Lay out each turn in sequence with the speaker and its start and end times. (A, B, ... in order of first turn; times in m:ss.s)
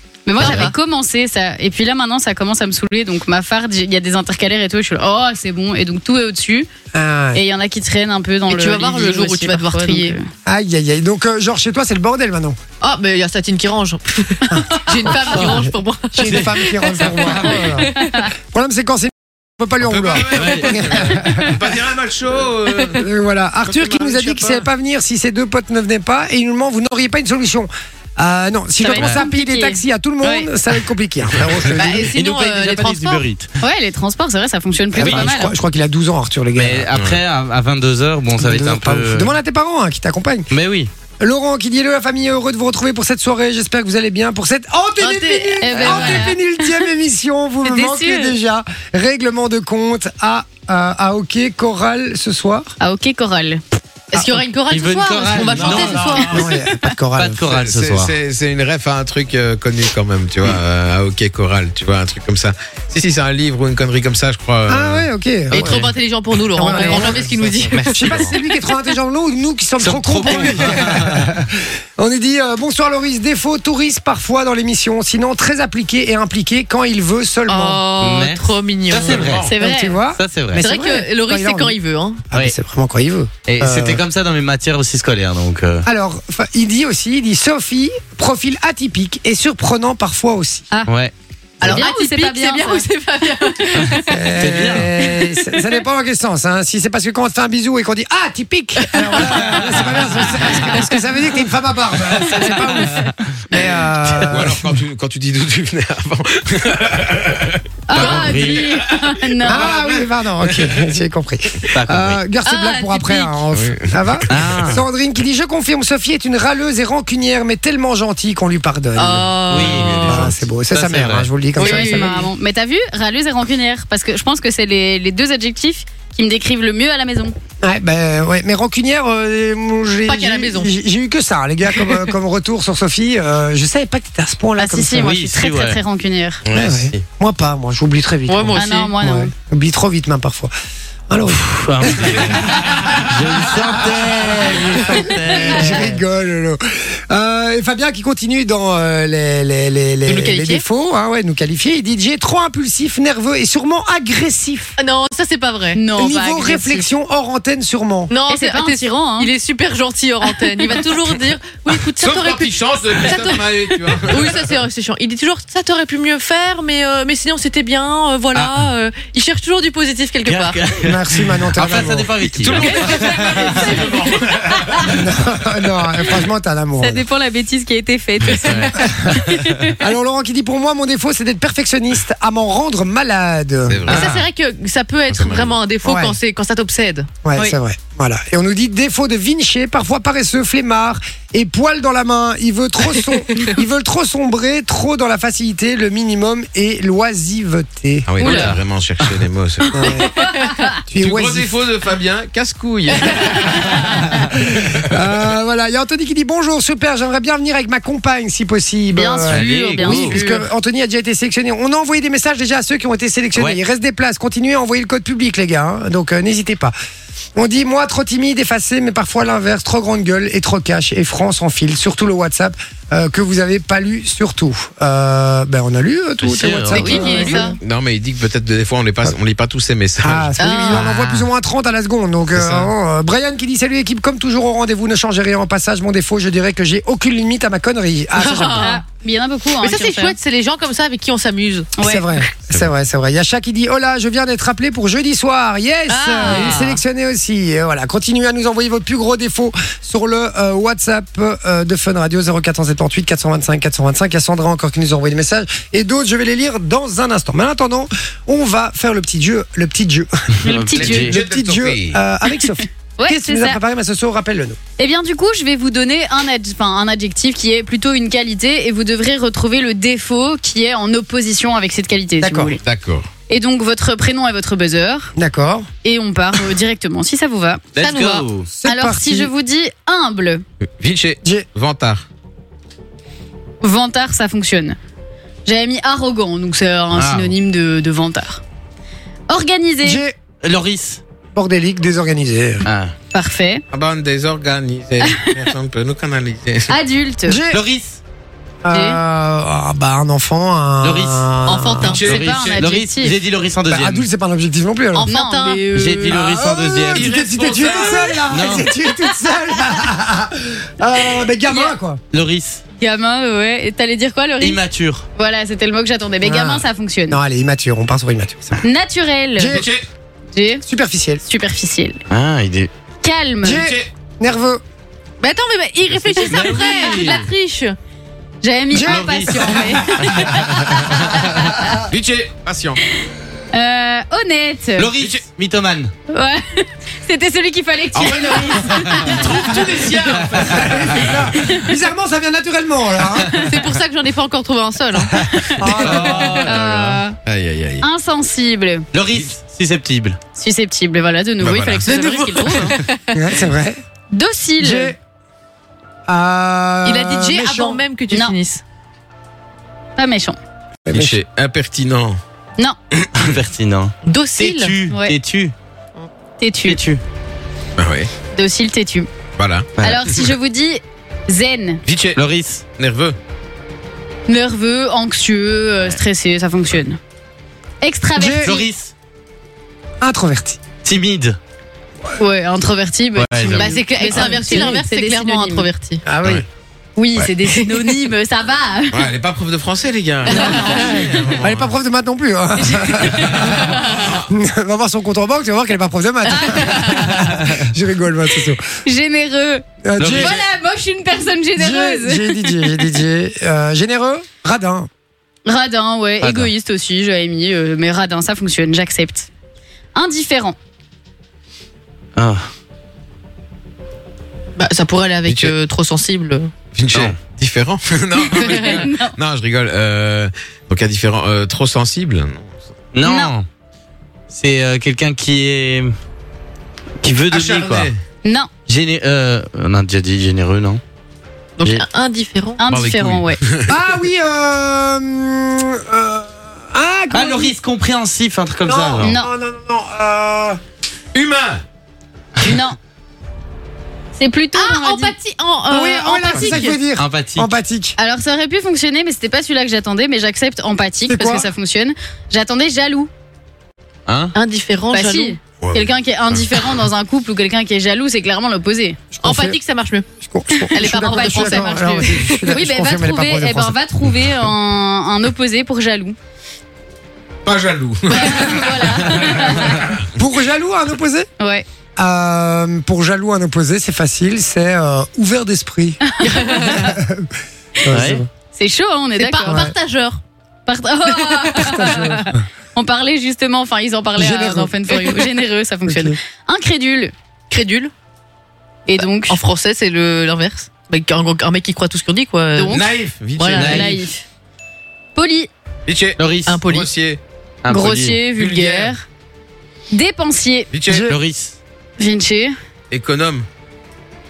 0:00.3-0:06.7 A
0:00.4-0:00.7 B
0:06.9-0:07.4 C
0:07.3-0:10.2 A
0:08.5-0:10.2 B
0:10.4-0:12.6 C
0:12.8-0:18.2 B
0:14.5-0:21.8 C
0:16.2-0:17.9 D
0:19.8-0:23.1 E
0:20.2-0:20.9 D
0:23.0-0:32.2 C
0:23.6-0:24.6 E
0:28.8-0:30.5 A
0:31.8-0:33.3 B
0:32.1-0:33.5 D
0:33.6-0:35.6 A
0:34.9-0:36.9 C
0:35.0-0:35.3 D
0:36.6-0:39.3 D
0:37.0-0:37.2 E
0:38.4-0:40.5 C
0:40.5-0:40.9 D
0:41.2-0:52.7 C
0:45.0-0:45.9 B
0:45.6-0:46.7 A
0:45.8-0:46.3 D
0:47.6-0:48.4 A
0:52.8-0:53.6 A
0:54.1-0:56.5 B
0:54.1-0:54.4 C
0:54.7-0:56.2 D
0:55.4-0:56.2 E
0:55.6-0:57.5 C
0:57.2-0:58.1 D
0:57.5-1:05.1 E
1:04.7-1:05.8 C
1:05.5-1:05.9 D
1:05.5-1:08.3 B
1:06.5-1:17.8 C
1:06.6-1:08.3 D
1:09.8-1:11.3 D
1:17.5-1:19.8 B
1:18.0-1:19.5 D
1:19.0-1:19.5 E
1:19.4-1:20.0 A
1:19.6-1:21.8 C
1:20.2-1:20.6 D
1:20.6-1:22.2 B
1:22.3-1:24.0 C
1:23.5-1:25.9 D
1:25.8-1:30.7 C
1:30.9-1:31.1 D
1:31.6-1:34.3 B
1:31.6-1:32.8 A
1:34.1-1:44.7 C
1:34.4-1:34.9 D
1:38.8-1:39.5 B
1:39.7-1:40.1 D
1:44.2-1:50.8 E
1:47.9-1:49.8 A
1:47.9-1:48.7 D
1:49.4-2:02.1 C
1:51.7-1:52.2 D
1:52.4-1:53.4 B
1:53.5-1:54.8 E
1:54.3-1:54.8 D
1:59.0-2:00.3 B
1:59.5-2:01.3 D
1:59.6-2:00.3 E
2:01.6-2:02.3 B
2:01.6-2:07.3 A
2:07.6-2:15.2 C
2:10.1-2:10.7 B
2:14.6-2:16.4 A
2:15.0-2:15.8 D
2:16.5-2:17.0 E
2:16.5-2:20.5 C
2:18.3-2:18.9 B
2:18.6-2:19.3 A
2:21.1-2:22.8 C
2:21.3-2:26.0 D
2:22.0-2:23.0 E
2:23.5-2:34.8 C
2:30.1-2:30.6 B
2:34.8-2:35.8 B
2:35.8-2:36.9 A
2:36.0-2:38.1 C
2:38.1-2:50.7 B
2:38.3-2:39.3 A
2:42.0-2:44.5 E
2:48.3-2:48.6 D
2:50.3-2:52.8 D
2:50.8-2:52.2 C
2:52.2-2:55.0 E
2:52.7-2:53.9 A
2:54.9-2:57.0 C
2:56.8-2:59.8 A
2:58.4-2:58.8 D
2:58.8-3:03.9 C
3:03.7-3:04.2 E
3:03.9-3:04.2 D
3:03.9-3:07.5 B
3:05.1-3:05.6 E
3:05.8-3:06.2 C
3:07.2-3:18.1 C
3:13.3-3:13.6 B
3:18.1-3:19.9 E
3:18.2-3:19.1 D
3:18.2-3:18.5 B
3:19.7-3:20.1 C
3:20.2-3:20.7 A
3:20.9-3:21.5 C
3:21.0-3:24.8 E
3:24.2-3:36.7 C
3:29.0-3:30.5 A
3:29.3-3:30.2 D
3:37.4-3:47.6 C
3:46.2-3:47.0 D
3:46.7-3:47.6 B
3:46.8-3:47.5 A
3:47.6-3:50.9 E
3:50.0-3:58.7 C
3:50.4-3:50.9 B
3:52.4-3:52.7 E
3:58.2-3:58.8 B
3:58.6-4:00.2 A
3:59.6-4:01.8 B
4:01.8-4:02.2 A
4:01.8-4:20.2 C
4:05.9-4:06.8 B
4:06.2-4:06.5 A
4:20.4-4:21.2 D
4:20.4-4:21.2 A
4:20.8-4:22.0 E
4:20.8-4:24.6 C
4:23.0-4:23.6 A
4:24.8-4:32.6 A
4:32.2-4:32.6 C
4:32.6-4:33.1 E
4:33.3-4:35.1 A
4:35.2-4:35.7 C
4:35.8-4:37.6 A
4:37.8-4:38.5 D
4:37.8-4:38.3 B
4:38.5-4:39.3 C
4:38.6-4:40.4 A
4:40.8-4:42.0 E
4:43.6-4:44.8 A
4:45.5-4:48.4 A
4:46.9-4:47.3 D
4:49.3-4:50.0 A
4:49.8-4:50.2 C
4:50.4-4:51.0 D
4:51.3-4:52.6 C
4:52.6-4:52.9 D
4:53.1-4:53.6 A
4:53.7-4:56.8 E
4:56.7-4:57.4 A
4:57.3-4:57.6 C
4:57.5-4:58.0 D
4:58.6-5:02.0 C
4:58.7-4:59.0 A
5:00.8-5:01.3 D
5:01.5-5:02.1 B
5:01.9-5:02.7 E
5:02.0-5:04.1 D
5:02.1-5:03.2 A
5:03.7-5:05.1 C
5:04.9-5:06.0 B
5:05.1-5:06.1 A
5:05.7-5:07.2 D
5:06.1-5:12.0 C
5:06.9-5:08.3 E
5:08.3-5:08.7 D
5:12.1-5:12.6 D
5:12.8-5:14.6 A
5:14.4-5:15.0 D
5:15.2-5:17.2 A
5:16.2-5:18.6 C
5:18.6-5:19.6 A
5:19.4-5:19.7 C
5:19.4-5:19.8 E
5:20.3-5:20.6 A
5:20.6-5:21.2 C
5:21.3-5:22.0 A
5:22.1-5:22.7 D
5:23.0-5:23.6 A
5:23.4-5:24.6 C
5:23.5-5:23.9 E
5:25.2-5:27.8 B
5:26.2-5:27.3 D
5:28.4-5:31.8 A
5:28.7-5:30.4 C
5:28.9-5:31.2 D
5:31.9-5:32.8 E
5:33.5-5:34.9 A
5:34.8-5:35.9 D
5:36.1-5:39.2 A
5:38.0-5:41.3 E
5:40.4-5:43.4 C
5:41.4-5:41.7 A
5:43.4-5:45.2 B
5:45.2-5:46.4 C
5:45.7-5:47.0 D
5:45.9-5:46.7 E
5:46.4-5:47.2 A
5:47.2-5:47.9 E
5:47.8-5:48.8 A
5:48.9-5:50.2 D
5:50.4-5:52.8 A
5:51.4-5:51.9 E
5:51.9-5:53.2 B
5:53.1-5:53.8 C
5:54.1-5:54.9 A
5:54.6-5:55.0 C
5:56.1-5:57.8 C
5:56.8-5:58.6 B
5:58.1-5:58.4 A
6:00.0-6:00.4 A
6:00.9-6:01.2 C
6:00.9-6:02.2 E
6:03.2-6:05.5 D
6:04.0-6:04.8 B
6:04.9-6:05.2 A
6:06.4-6:06.8 A
6:06.7-6:07.0 D
6:07.8-6:08.1 E
6:08.3-6:09.1 A
6:09.4-6:09.7 E
6:09.8-6:10.0 D
6:09.8-6:11.8 A
6:11.8-6:12.2 E
6:12.2-6:12.6 D
6:12.8-6:13.2 E
6:14.3-6:17.0 A
6:17.8-6:18.7 A
6:18.2-6:18.6 C
6:18.4-6:18.9 D
6:20.0-6:20.6 C
6:20.8-6:21.4 D
6:22.2-6:25.7 A
6:23.2-6:23.8 D
6:23.5-6:26.0 B
6:24.1-6:24.8 C
6:26.0-6:26.4 C
6:27.0-6:29.0 A
6:28.9-6:31.7 E
6:30.3-6:30.9 A
6:30.3-6:38.6 C
6:30.4-6:30.6 B
6:32.6-6:33.7 A
6:33.1-6:34.2 E
6:36.3-6:37.3 A
6:38.8-6:42.8 A
6:39.8-6:40.4 C
6:40.0-6:40.4 D
6:41.6-6:44.9 C
6:45.5-6:49.3 A
6:46.2-6:46.5 D
6:50.0-6:50.6 A
6:52.2-6:52.4 D
6:54.6-6:56.5 B
6:55.3-6:55.5 E
6:56.7-7:02.5 E
6:58.3-6:59.2 A
6:58.4-6:58.8 B
7:02.9-7:03.5 D
7:03.0-7:03.4 A
7:04.3-7:06.0 D
7:07.0-7:07.9 D
7:07.3-7:08.0 E
7:08.2-7:08.5 A
7:08.7-7:10.8 D
7:11.6-7:12.6 B
7:12.6-7:13.4 A
7:12.7-7:13.8 E
7:13.7-7:17.5 C
7:17.1-7:19.2 D
7:18.6-7:20.6 C
7:19.0-7:19.3 A
7:21.1-7:21.6 E
7:22.4-7:22.8 A
7:24.2-7:25.1 A
7:24.6-7:26.8 B
7:25.7-7:28.0 C
7:27.0-7:27.5 D
7:28.0-7:33.1 A
7:31.1-7:31.5 C
7:34.1-7:34.4 D
7:34.3-7:35.4 B
7:34.9-7:39.0 A
7:35.6-7:35.9 E
7:39.1-7:39.6 C
7:39.2-7:40.1 B
7:40.2-7:43.8 C
7:40.7-7:42.6 B
7:40.8-7:46.2 A
7:47.4-7:50.0 E
7:48.1-7:49.8 A
7:50.1-7:51.3 C
7:51.4-7:51.6 A
7:52.0-7:57.3 C
7:56.2-7:56.9 A
7:56.2-7:57.0 B
7:57.8-7:58.3 C
7:57.9-7:58.2 D
7:58.5-7:59.6 A
7:59.2-8:00.2 B
7:59.5-7:59.8 C
8:00.7-8:07.1 A
8:01.1-8:02.2 B
8:01.6-8:02.4 C
8:04.2-8:04.8 C
8:04.9-8:05.2 B
8:05.9-8:06.2 C
8:07.5-8:07.9 B
8:08.9-8:09.4 A
8:09.0-8:12.8 B
8:12.6-8:12.8 A
8:12.7-8:13.9 E
8:13.4-8:13.9 B
8:13.5-8:13.9 D
8:13.6-8:14.2 A
8:15.2-8:15.5 A
8:15.9-8:17.2 E
8:16.2-8:16.6 D
8:16.5-8:16.9 B
8:17.6-8:18.2 D
8:17.7-8:19.0 A
8:18.3-8:19.0 E
8:19.9-8:20.7 A
8:20.7-8:21.1 E
8:20.9-8:21.2 C
8:21.1-8:21.6 D
8:22.0-8:22.6 A
8:22.9-8:23.5 E